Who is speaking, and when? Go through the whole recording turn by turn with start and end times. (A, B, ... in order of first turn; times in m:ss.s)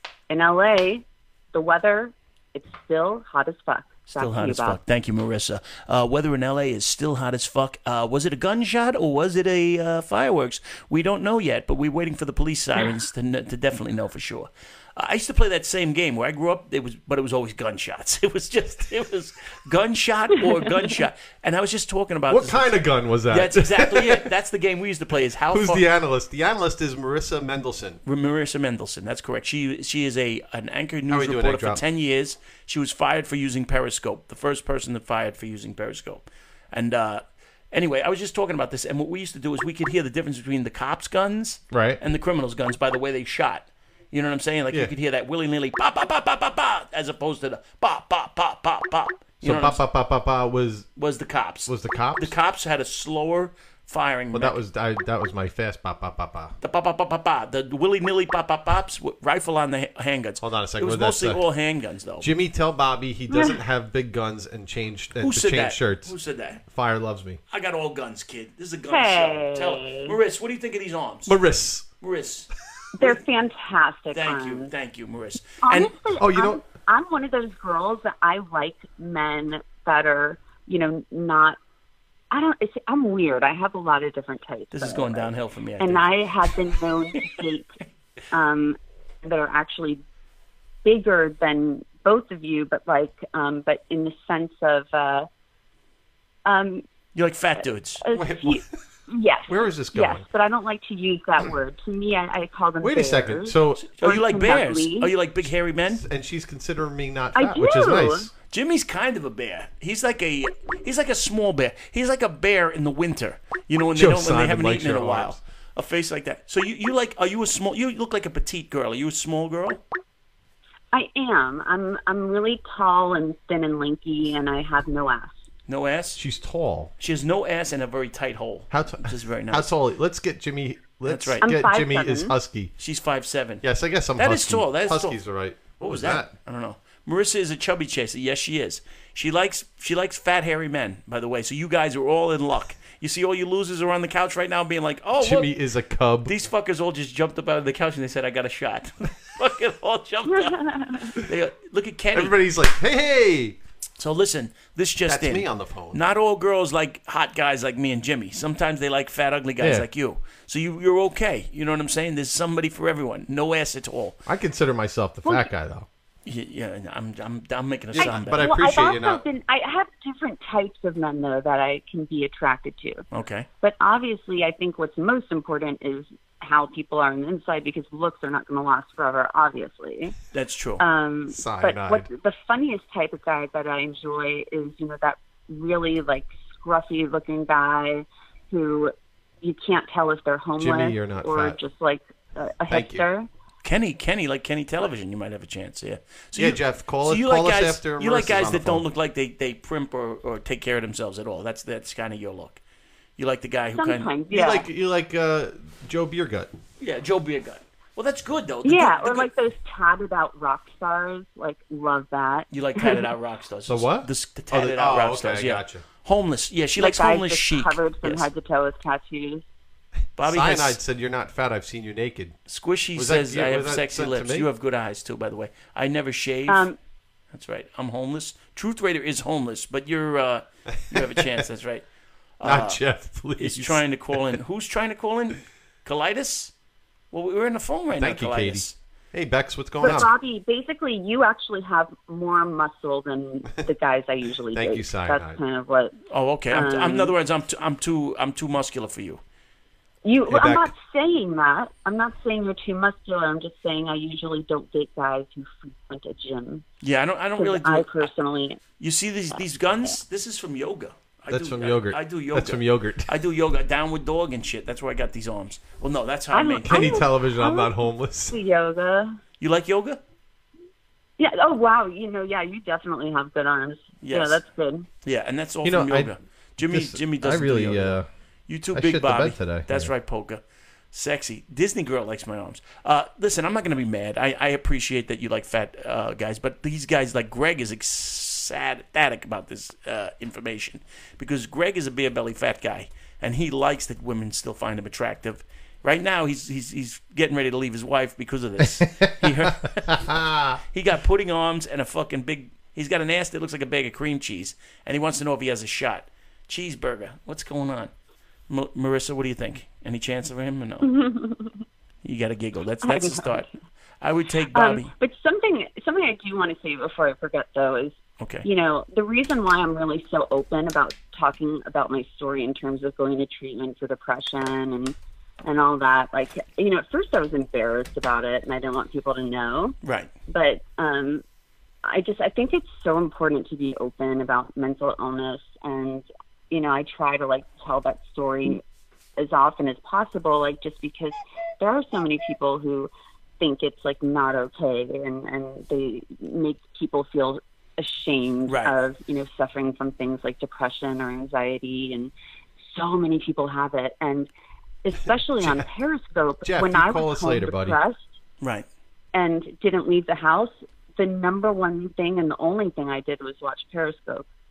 0:00.3-0:04.8 A
0:04.1-0:22.8 B
0:22.3-0:24.3 C
0:23.3-0:25.8 B
0:25.5-0:28.0 C
0:28.1-0:49.8 B
0:31.1-0:31.8 C
0:41.7-0:42.0 C
0:49.4-0:50.9 C
0:51.0-0:54.6 B
0:51.7-0:52.3 C
0:54.3-0:56.6 C
0:56.6-1:02.3 B
1:00.4-1:01.4 C
1:02.2-1:06.1 C
1:03.3-1:03.6 A
1:05.2-1:06.6 B
1:06.7-1:07.4 C
1:07.5-1:11.4 B
1:08.9-1:10.1 A
1:11.3-1:11.9 C
1:12.0-1:12.5 B
1:13.0-1:14.7 A
1:14.1-1:15.9 B
1:15.6-1:21.6 A
1:16.2-1:16.6 C
1:22.3-1:27.7 A
1:24.7-1:26.2 B
1:28.3-1:30.0 A
1:30.8-1:35.3 A
1:36.4-1:36.8 A
1:37.1-1:38.0 B
1:37.6-1:45.1 A
1:38.1-1:38.7 C
1:39.5-1:40.3 C
1:42.8-1:43.8 C
1:43.8-1:46.0 B
1:45.9-1:48.3 C
1:47.4-1:48.3 A
1:48.5-1:59.8 B
1:54.0-1:55.4 C
2:00.9-2:05.4 A
2:05.7-2:06.2 B
2:06.2-2:06.9 C
2:07.0-2:09.7 B
2:08.7-2:12.7 C
2:11.1-2:11.4 B
2:11.4-2:12.3 A
2:12.8-2:13.6 B
2:13.6-2:16.3 C
2:14.2-2:15.2 B
2:15.8-2:25.6 B
2:25.2-2:26.3 C
2:26.3-2:32.4 B
2:30.3-2:31.1 A
2:32.1-2:33.6 C
2:34.0-2:44.2 B
2:35.1-2:36.0 C
2:39.6-2:39.9 C
2:44.3-2:45.9 C
2:46.3-2:48.5 B
2:47.9-2:49.2 C
2:48.0-2:53.0 A
2:53.1-2:53.5 B
2:53.6-3:00.1 A
3:00.3-3:00.8 B
3:00.8-3:13.3 A
3:01.3-3:02.1 C
3:10.6-3:11.6 C
3:12.7-3:13.1 C
3:13.6-3:22.6 B
3:16.4-3:18.9 C
3:23.2-3:24.1 B
3:23.7-3:24.7 A
3:24.3-3:26.5 C
3:26.8-3:29.3 B
3:28.6-3:33.0 A
3:32.5-3:38.3 B
3:33.7-3:35.8 C
3:36.8-3:39.4 A
3:40.2-3:40.8 B
3:40.2-3:42.4 C
3:42.5-3:46.7 B
3:43.0-3:44.5 C
3:46.5-3:46.8 A
3:47.3-3:51.8 B
3:50.9-3:51.4 C
3:52.4-3:52.8 B
3:52.4-3:54.1 C
3:53.4-3:56.5 B
3:57.1-3:58.8 B
3:58.0-4:00.1 C
3:59.8-4:06.0 A
4:04.5-4:05.4 C
4:06.1-4:09.2 B
4:06.5-4:07.1 A
4:10.0-4:16.6 A
4:10.3-4:10.7 C
4:16.8-4:18.1 B
4:17.4-4:18.6 A
4:18.8-4:27.0 B
4:21.3-4:23.1 C
4:26.3-4:27.8 A
4:26.6-4:28.4 C
4:28.3-4:29.2 A
4:29.4-4:30.0 B
4:31.2-4:34.9 A
4:34.0-4:34.4 B
4:35.0-4:38.0 B
4:35.6-4:38.1 C
4:38.5-5:00.1 B
4:38.7-4:39.9 C
4:58.8-5:00.6 C
5:00.7-5:07.9 B
5:08.5-5:10.9 B
5:10.8-5:11.6 A
5:12.0-5:13.5 B
5:12.8-5:13.5 A
5:14.0-5:14.9 B
5:14.5-5:29.8 A
5:18.2-5:18.4 B
5:29.8-5:30.1 B
5:30.3-5:31.2 A
5:31.8-5:38.6 A
5:39.2-5:54.3 A
5:48.5-5:48.7 B
5:54.8-5:58.1 A
5:56.4-5:57.8 C
5:58.4-5:58.7 B
5:59.1-6:04.3 A